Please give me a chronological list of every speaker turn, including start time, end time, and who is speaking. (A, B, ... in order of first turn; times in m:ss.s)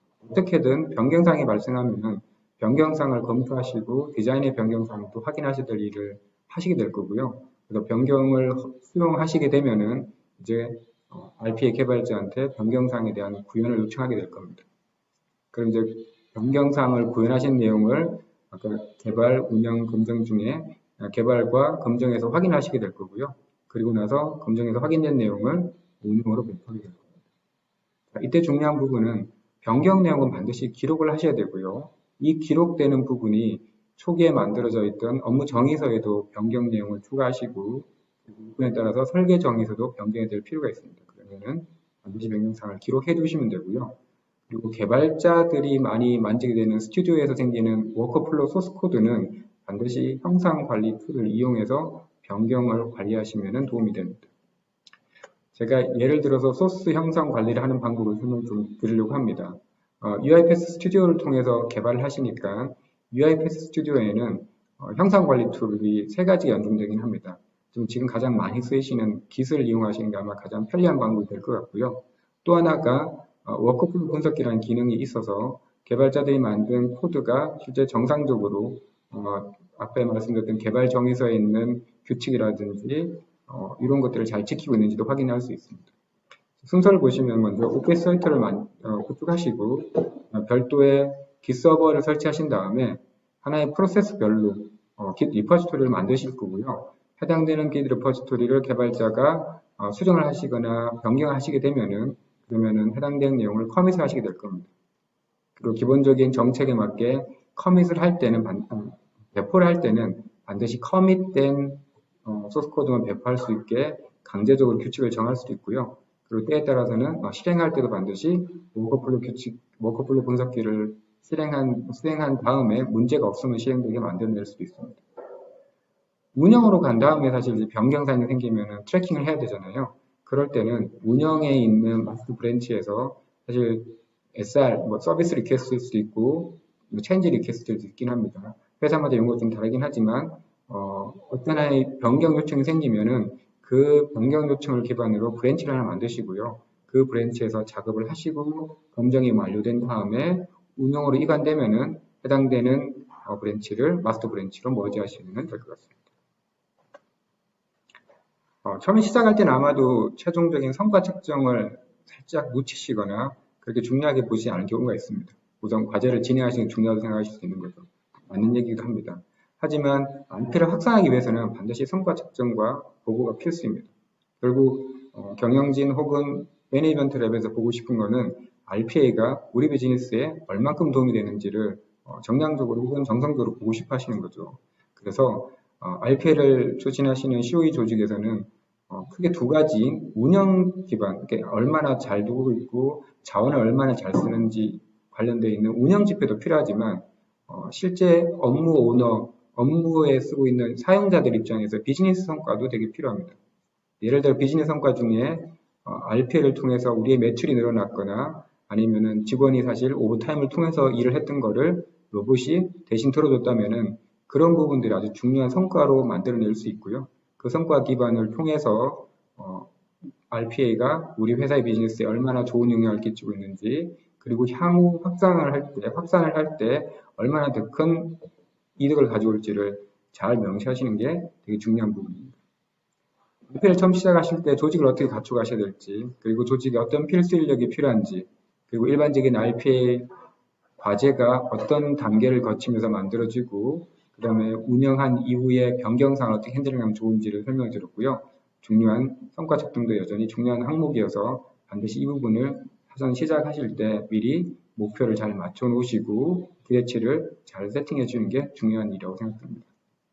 0:00.2-0:14.7 A
0:15.5-0:27.1 A
0:28.1-0:44.0 A
0:44.5-0:54.3 A
0:55.6-1:25.9 A
1:26.6-1:44.7 A
1:45.6-2:05.0 A
2:06.3-2:35.9 A
2:38.6-3:23.4 A
3:24.0-3:52.4 A
3:53.5-4:00.1 A
4:00.8-4:19.7 A